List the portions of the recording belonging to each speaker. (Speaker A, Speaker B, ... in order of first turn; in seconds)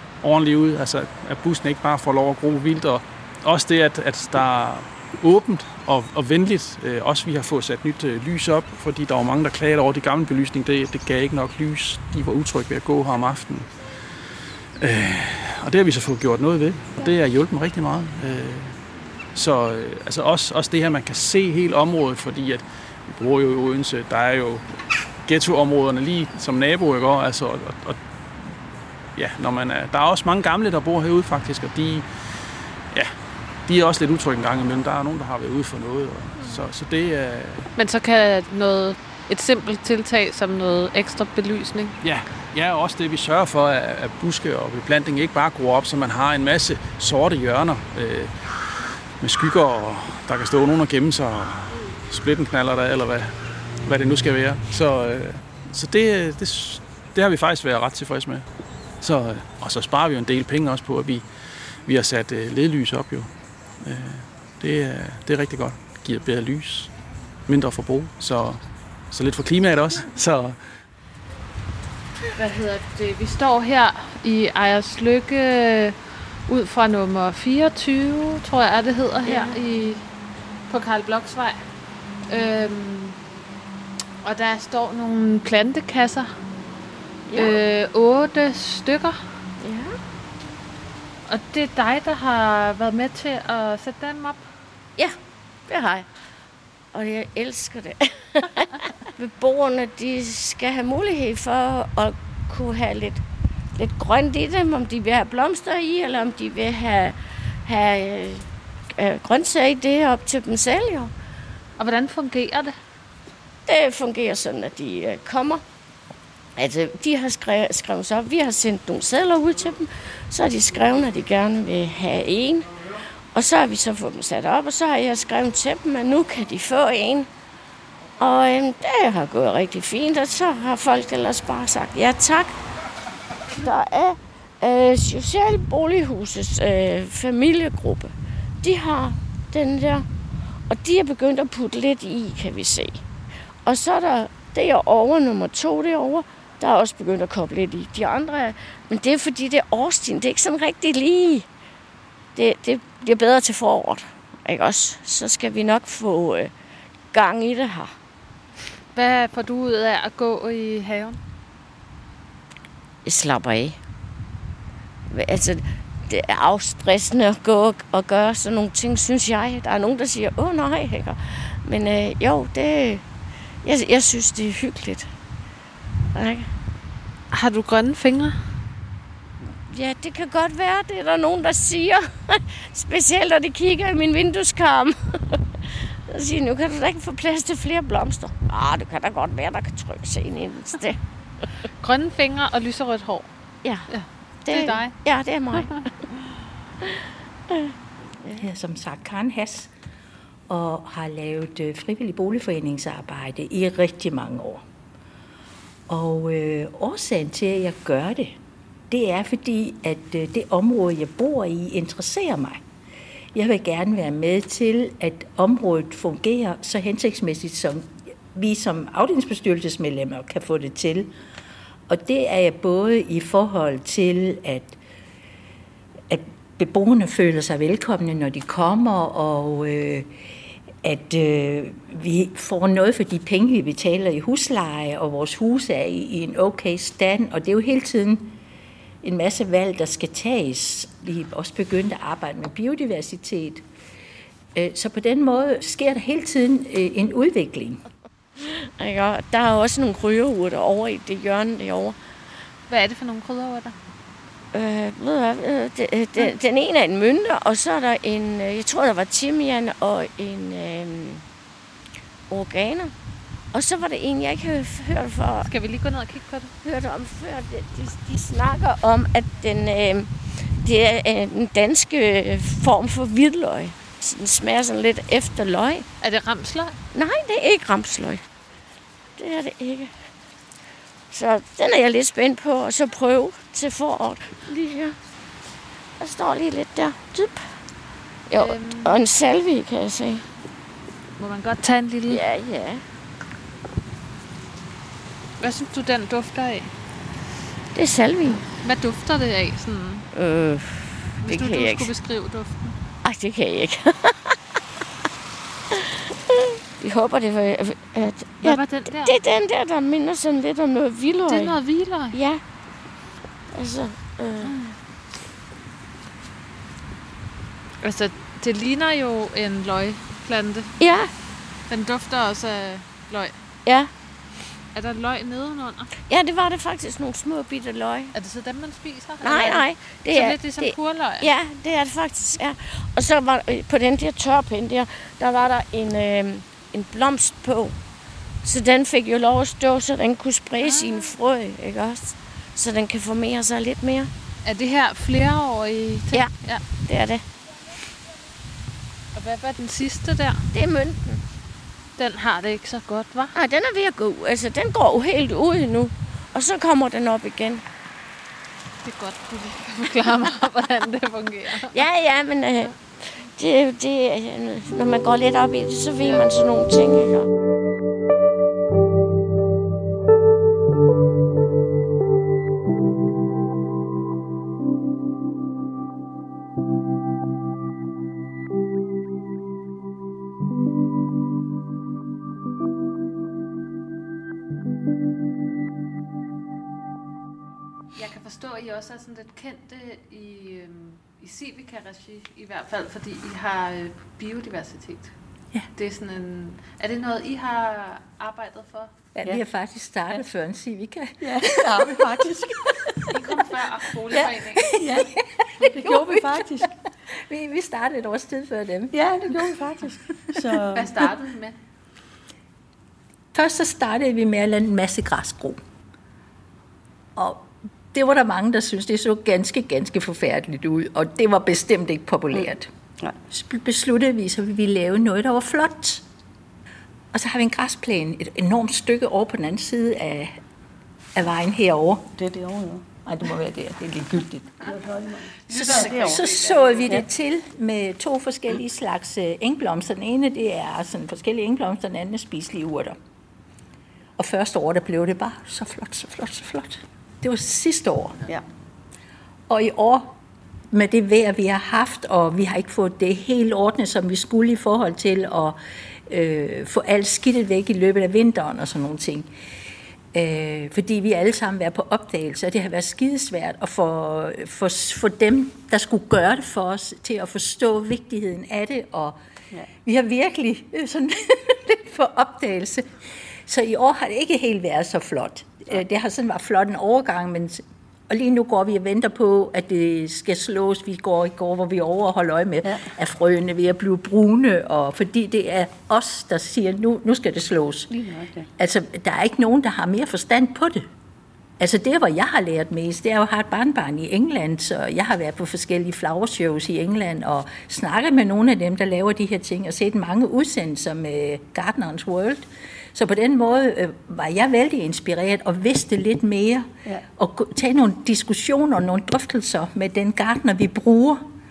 Speaker A: 0.2-13.7, 14.8-18.8, 19.3-24.6, 25.2-28.5, 29.1-32.0, 33.7-37.7, 42.0-48.3, 49.2-53.3, 53.8-58.5, 59.0-61.2, 61.8-63.3, 63.8-66.9, 67.5-70.6
Speaker B: 37.8-42.0, 72.3-80.0, 80.7-81.6, 82.3-83.2, 84.2-86.3, 87.3-89.2, 91.2-94.4, 111.8-112.7, 158.9-161.2, 177.3-178.4, 191.8-193.3, 193.9-194.9, 252.7-253.7, 265.4-266.5, 276.0-276.8, 288.4-289.0, 291.2-292.2, 295.4-296.7, 298.5-300.0, 301.2-302.8, 308.4-309.2, 311.3-312.1, 314.4-314.7, 317.8-320.8, 321.7-323.4, 324.7-325.9, 328.1-331.3, 340.6-341.1, 344.4-346.6, 349.1-350.4, 351.9-353.3, 358.8-361.8, 387.9-395.1, 395.7-398.9, 403.1-404.8, 410.7-411.6, 435.4-436.9
Speaker C: 79.2-79.6, 87.3-87.6, 89.6-90.0, 95.7-96.0, 96.9-103.2, 103.8-107.1, 107.7-108.4, 109.0-111.1, 113.7-115.6, 116.6-122.8, 123.3-127.3, 128.2-132.6, 133.6-140.0, 140.7-143.0, 143.7-151.4, 152.3-156.5, 157.1-157.9, 163.0-163.8, 165.1-173.0, 173.6-175.0, 176.1-176.5, 179.7-185.4, 186.1-191.0, 193.6-193.9, 194.4-195.7, 248.8-251.9, 254.5-261.2, 262.3-262.9, 263.5-265.5, 266.6-275.8, 276.9-278.2, 279.2-279.9, 281.1-285.0, 286.0-287.4, 288.3-290.2, 292.1-292.8, 297.7-298.4, 300.1-301.9, 303.0-304.3, 306.8-312.4, 313.5-314.5, 320.8-321.1, 323.6-323.9, 326.1-328.1, 329.2-337.7, 338.4-344.1, 346.9-347.2, 350.5-351.2, 353.3-357.6, 361.6-367.2
Speaker D: 198.4-199.7, 200.5-204.6, 205.9-208.4, 208.9-212.6, 213.3-221.1, 221.9-224.8, 226.1-230.1, 230.8-238.4, 239.0-243.6, 244.5-247.8, 399.1-402.9, 404.6-409.6, 413.3-415.6, 417.1-422.7, 423.3-426.0, 427.1-430.4, 431.1-432.2, 433.1-434.7, 435.6-442.9, 444.2-448.4, 449.5-450.1, 450.7-459.3, 460.1-469.2, 469.8-472.9, 473.4-487.9, 488.6-490.8, 491.6-511.2
Speaker E: 401.2-402.6, 404.8-405.1, 405.7-406.7, 408.9-410.9, 432.1-432.8, 434.7-436.2, 487.9-488.5